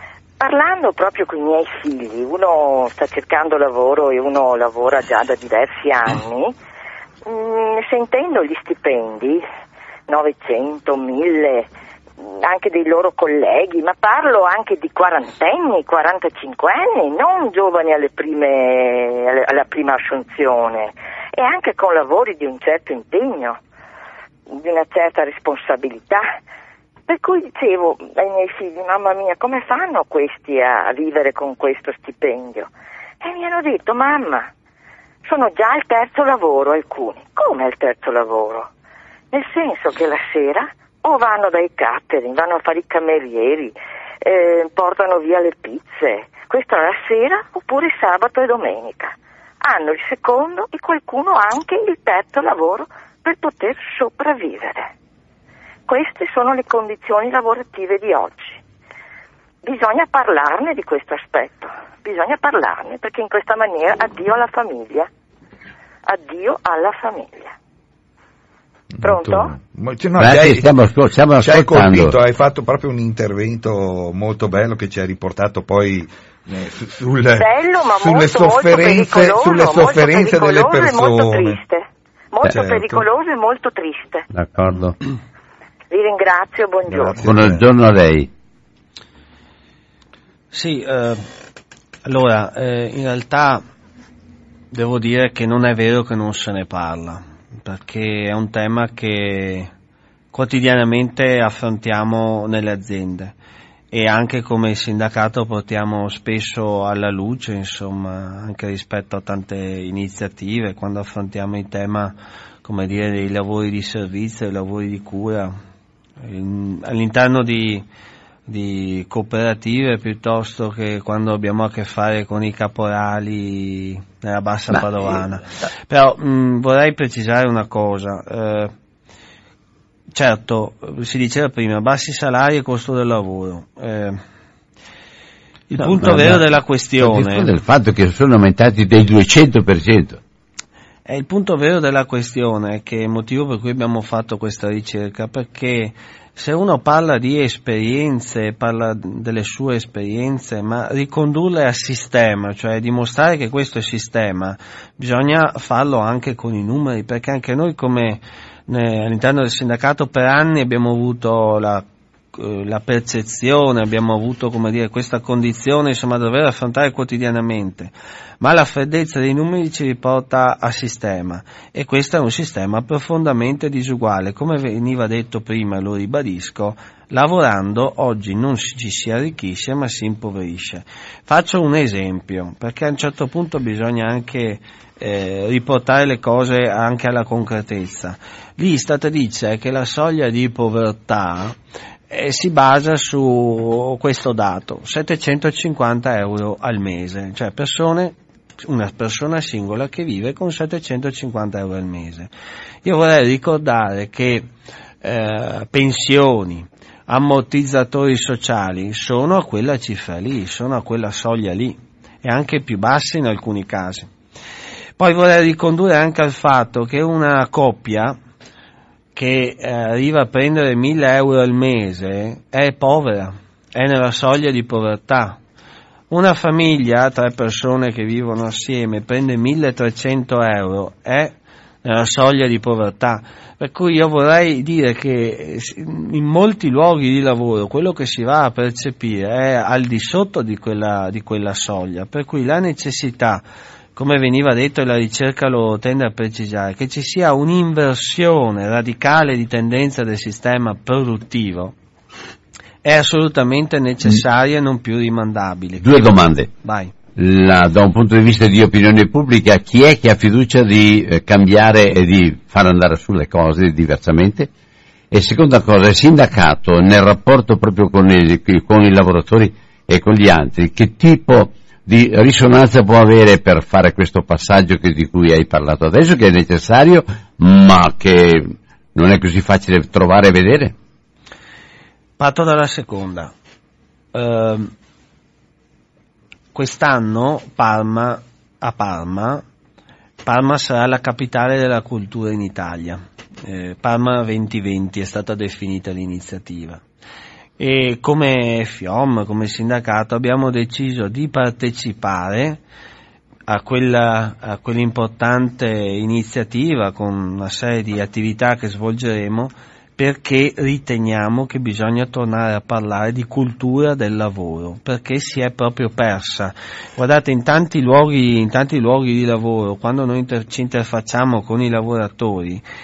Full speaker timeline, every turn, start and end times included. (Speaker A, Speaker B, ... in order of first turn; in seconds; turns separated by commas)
Speaker A: 0.4-6.5, Speaker A: 7.3-9.4, Speaker A: 10.1-11.7, Speaker A: 12.2-23.6, Speaker A: 24.5-26.3, Speaker A: 27.1-32.7, Speaker A: 33.2-34.5, Speaker A: 35.2-38.7, Speaker A: 39.3-54.9, Speaker A: 55.9-58.6, Speaker A: 59.6-65.1, Speaker A: 66.1-67.5, Speaker B: 69.0-70.7, Speaker A: 69.0-69.5, Speaker C: 70.2-72.1, Speaker B: 71.4-81.6, Speaker A: 77.4-84.2, Speaker B: 82.7-83.0, Speaker C: 84.3-85.0, Speaker A: 85.9-87.3, Speaker B: 86.9-87.6, Speaker C: 87.2-88.3, Speaker D: 90.5-91.2, Speaker D: 92.0-93.6, Speaker D: 94.7-99.7, Speaker D: 100.3-103.3, Speaker D: 103.9-115.5, Speaker D: 116.2-117.8, Speaker D: 118.5-128.7, Speaker D: 130.1-134.2, Speaker D: 135.7-137.5, Speaker C: 135.8-136.4, Speaker C: 137.0-140.2, Speaker D: 141.1-191.6, Speaker D: 192.1-202.3, Speaker D: 202.8-204.5, Speaker D: 205.0-214.1, Speaker D: 215.0-218.2, Speaker D: 219.1-225.4, Speaker D: 226.1-243.4, Speaker D: 243.9-251.7, Speaker D: 252.8-256.9, Speaker C: 255.8-256.5, Speaker C: 257.1-264.5, Speaker C: 265.1-280.7, Speaker D: 282.2-283.3, Speaker D: 284.1-284.7, Speaker D: 286.5-289.4, Speaker D: 290.2-296.8, Speaker D: 297.6-302.6, Speaker D: 303.5-322.6